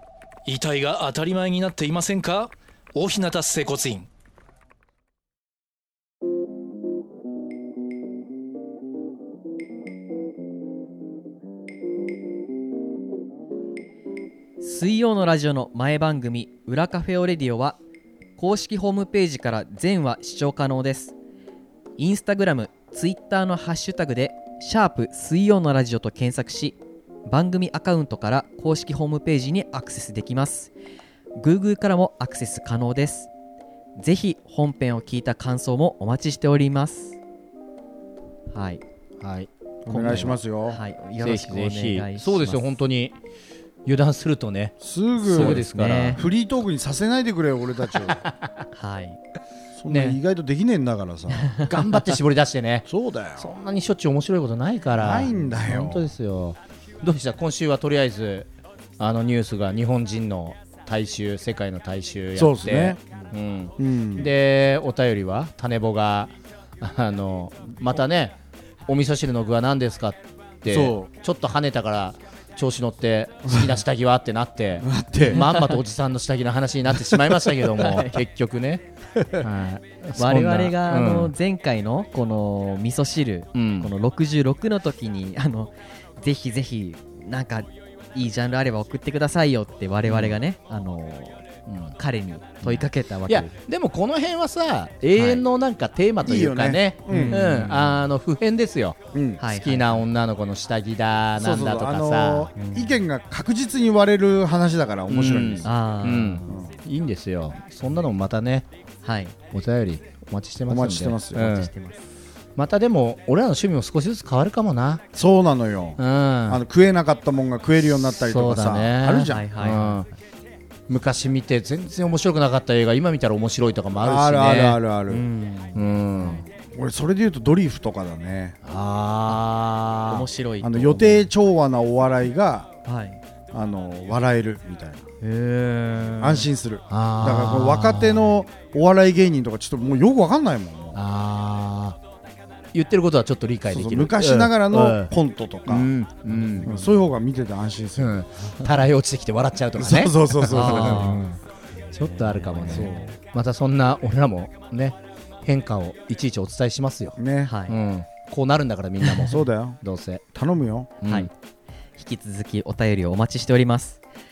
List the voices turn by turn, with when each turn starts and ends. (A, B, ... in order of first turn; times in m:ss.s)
0:00.4-0:04.1 A
0:14.6-0:17.8 B
0:18.4-0:21.1 B
0:22.0-0:30.7 B
0:31.4-0:33.3 B
0:34.0-0:37.2 B
0:38.5-0:38.8 B
0:39.2-0:40.4 C
0:39.8-0:40.8 D
0:39.9-0:42.6 B
0:41.2-0:43.2 C
0:43.8-0:46.2 C
0:44.8-0:48.2 D
0:45.2-0:46.2 B
0:48.2-0:48.6 C
0:48.7-0:49.2 B
0:49.8-0:51.6 D
0:49.9-0:50.2 C
0:51.4-0:51.7 B
0:51.6-1:08.4 C
0:52.9-0:53.5 D
0:55.0-0:56.1 D
1:02.4-1:03.0 D
1:03.8-1:04.3 D
1:08.9-1:21.3 C
1:10.6-1:11.1 D
1:13.5-1:13.8 D
1:14.8-1:15.4 D
1:15.3-1:15.8 B
1:17.8-1:18.2 B
1:20.2-1:31.4 B
1:23.5-1:23.9 C
1:30.0-1:30.4 C
1:31.7-1:31.9 C
1:32.0-1:33.5 B
1:32.6-1:42.5 C
1:35.1-1:35.4 B
1:36.2-1:37.6 D
1:37.1-1:37.9 B
1:39.1-1:39.4 D
1:39.4-1:40.1 B
1:41.4-1:45.7 D
1:42.6-1:43.0 B
1:45.1-1:48.7 C
1:45.6-1:46.5 B
1:46.5-1:46.8 D
1:49.0-1:49.3 B
1:49.5-1:51.7 C
1:50.7-1:51.6 D
1:51.4-1:52.0 B
1:52.6-1:55.0 C
1:55.1-1:59.5 D
1:56.0-1:56.6 C
1:58.2-2:00.1 C
1:59.3-2:00.2 B
2:00.9-2:04.8 C
2:04.0-2:05.2 D
2:05.1-2:06.4 B
2:05.7-2:06.4 C
2:06.5-2:08.6 D
2:08.6-2:10.3 C
2:10.1-2:11.3 B
2:10.6-2:12.7 D
2:12.8-2:13.2 B
2:13.5-2:15.1 D
2:15.2-2:16.5 B
2:16.2-2:21.0 D
2:16.9-2:18.4 C
2:20.9-2:22.0 C
2:22.7-2:25.1 C
2:23.7-2:25.9 D
2:25.7-2:26.7 C
2:26.6-2:28.2 D
2:28.0-2:31.4 C
2:29.8-2:31.1 D
2:30.5-2:31.2 B
2:31.9-2:40.2 C
2:32.2-2:33.1 B
2:32.7-2:33.1 D
2:37.2-2:37.5 D
2:37.4-2:37.8 B
2:39.3-2:39.8 D
2:40.3-2:40.9 D
2:41.0-2:41.3 C
2:42.0-2:44.0 B